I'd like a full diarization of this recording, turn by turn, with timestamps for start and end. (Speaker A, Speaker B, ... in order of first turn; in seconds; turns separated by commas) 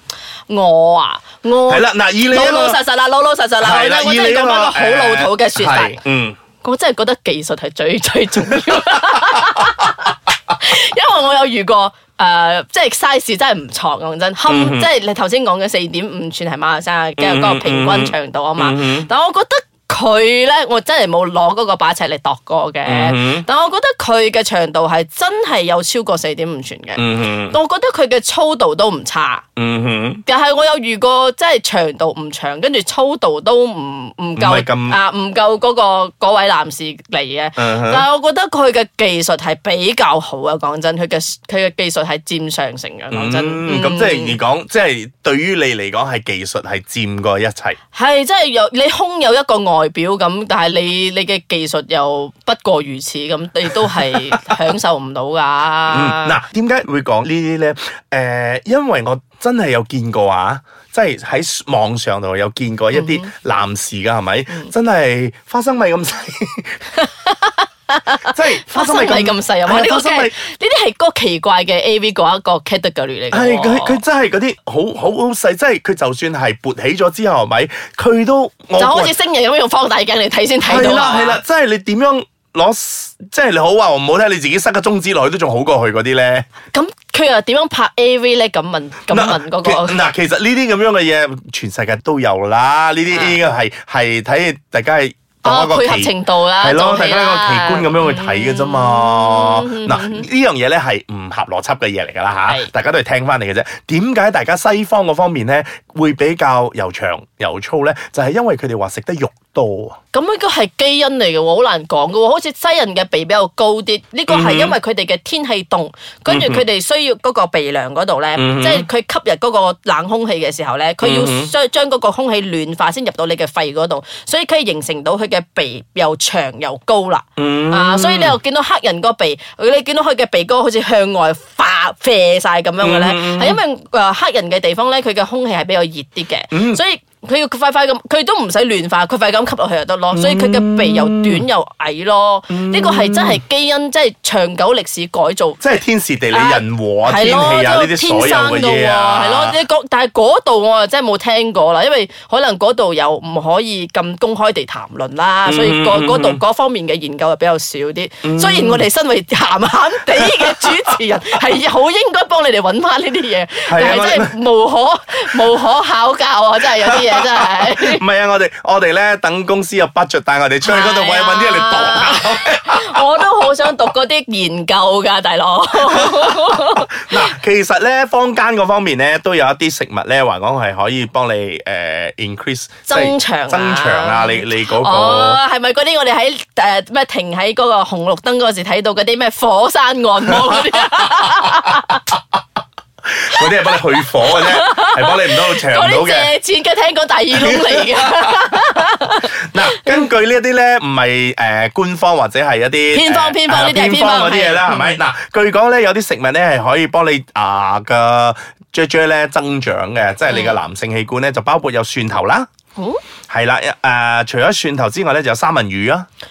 Speaker A: 0.5-6.0, Speaker B: 1.7-2.8, Speaker B: 3.6-6.4, Speaker A: 6.6-29.4, Speaker B: 8.6-9.5, Speaker B: 14.5-14.9, Speaker B: 17.2-19.1, Speaker B: 22.8-23.5, Speaker B: 26.9-27.6, Speaker B: 29.6-30.2, Speaker A: 30.2-44.4, Speaker B: 34.4-35.0, Speaker B: 37.6-38.0, Speaker B: 43.1-47.8, Speaker A: 47.9-56.4, Speaker B: 55.9-66.8, Speaker A: 62.9-63.3, Speaker A: 67.0-74.0, Speaker B: 68.2-70.3, Speaker B: 73.3-79.1, Speaker A: 78.8-81.4, Speaker B: 80.6-86.5, Speaker A: 86.7-90.0, Speaker B: 89.1-110.0, Speaker A: 93.1-93.4, Speaker A: 95.4-100.3, Speaker A: 110.1-145.6, Speaker B: 114.3-114.8, Speaker B: 116.3-116.6, Speaker B: 118.3-118.9, Speaker B: 121.0-121.5, Speaker B: 127.4-128.4, Speaker B: 132.8-133.6, Speaker B: 136.5-136.8, Speaker B: 140.1-141.5, Speaker B: 142.5-143.4, Speaker B: 145.6-149.6, Speaker A: 146.3-168.0, Speaker B: 155.4-156.4, Speaker B: 158.2-158.8, Speaker B: 160.2-160.9, Speaker B: 163.6-164.3, Speaker B: 166.7-173.7, Speaker A: 170.6-177.3, Speaker B: 175.8-185.4, Speaker A: 182.9-192.0, Speaker B: 190.3-191.9, Speaker B: 193.1-196.3, Speaker A: 194.0-199.8, Speaker B: 197.3-198.6, Speaker B: 199.2-212.5, Speaker A: 202.9-205.0, Speaker A: 210.3-210.6, Speaker B: 213.3-216.1